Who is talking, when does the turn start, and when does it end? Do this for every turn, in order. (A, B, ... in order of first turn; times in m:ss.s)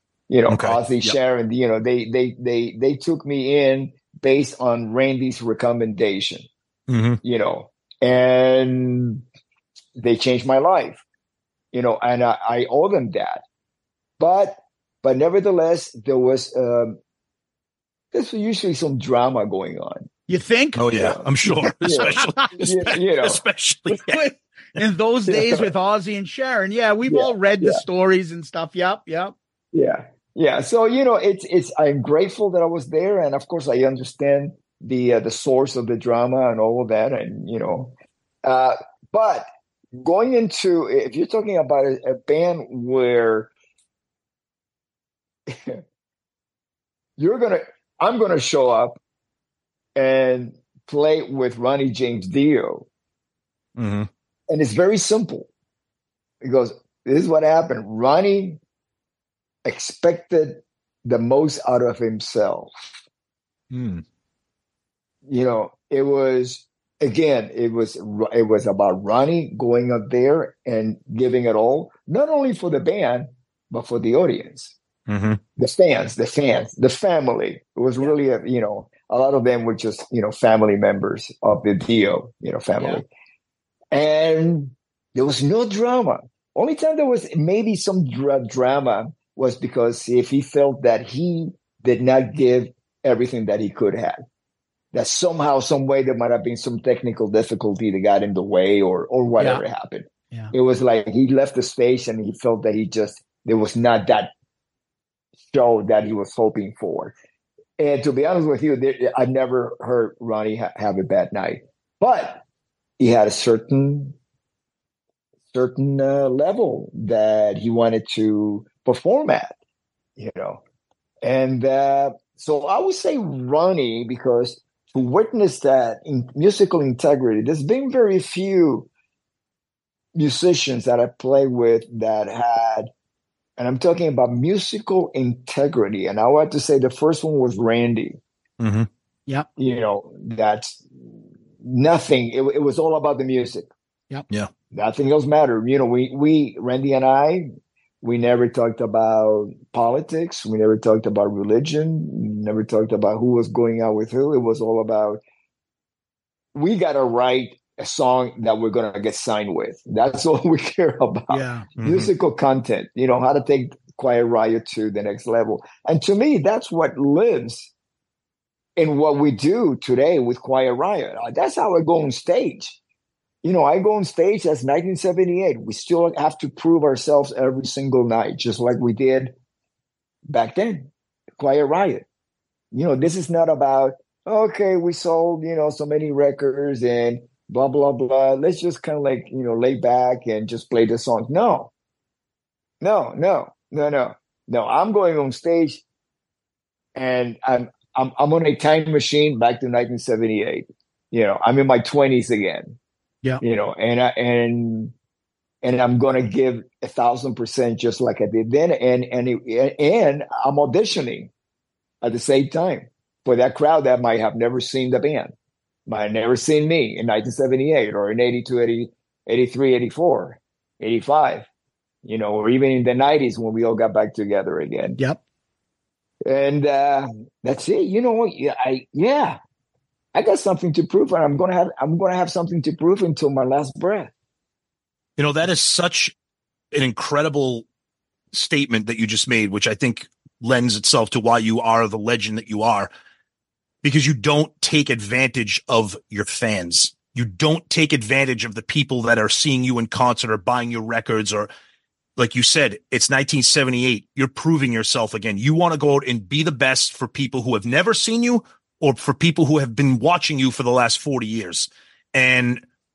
0:00.3-0:06.5 A
0:00.5-0:01.2 B
0:06.9-0:07.2 B
0:07.2-0:09.2 A
0:10.0-0:11.0 A
0:11.7-0:13.4 A
0:14.2-0:17.0 A
0:18.1-0:20.1 A
0:20.3-0:20.8 C
0:20.8-0:24.2 B
0:20.9-0:23.4 A
0:21.9-0:22.5 C
0:24.1-0:29.3 C
0:25.3-0:25.7 A
0:27.1-0:27.8 A
0:29.7-0:37.9 A
0:38.4-0:43.5 A
0:45.5-0:45.8 A
0:47.2-0:49.0 A
0:50.0-0:52.9 A
0:53.8-0:54.1 B
0:54.5-0:55.5 A
0:56.4-0:58.6 A
0:59.6-1:03.0 A
1:03.7-1:04.0 B
1:05.3-1:14.8 A
1:15.1-1:15.4 B
1:15.6-1:23.1 A
1:23.9-1:34.2 A
1:34.9-1:44.3 A
1:45.5-1:47.1 A
1:47.8-1:52.4 A
1:53.0-1:54.2 A
1:55.5-1:59.5 A
2:00.2-2:00.6 A
2:01.2-2:08.9 A
2:10.2-2:12.9 A
2:13.6-2:18.2 A
2:18.6-2:18.9 B
2:19.6-2:20.8 A
2:21.6-2:23.7 A
2:24.7-2:27.5 A
2:28.0-2:35.2 A
2:36.5-2:47.7 A
2:41.3-2:41.7 C
2:41.8-2:42.1 B
2:48.8-2:52.8 A
2:53.4-2:59.3 A
3:00.3-3:02.0 A
3:02.7-3:11.7 A
3:12.8-3:15.8 A
3:17.0-3:22.8 A
3:23.4-3:24.9 A
3:25.6-3:31.3 A
3:32.0-3:35.3 A
3:35.9-3:41.5 A
3:42.0-3:45.0 A
3:46.2-3:49.4 A
3:50.1-3:54.1 A
3:55.2-3:56.1 B
3:56.7-3:57.6 B
3:58.3-4:02.9 B
4:03.8-4:11.5 B
4:12.2-4:22.6 B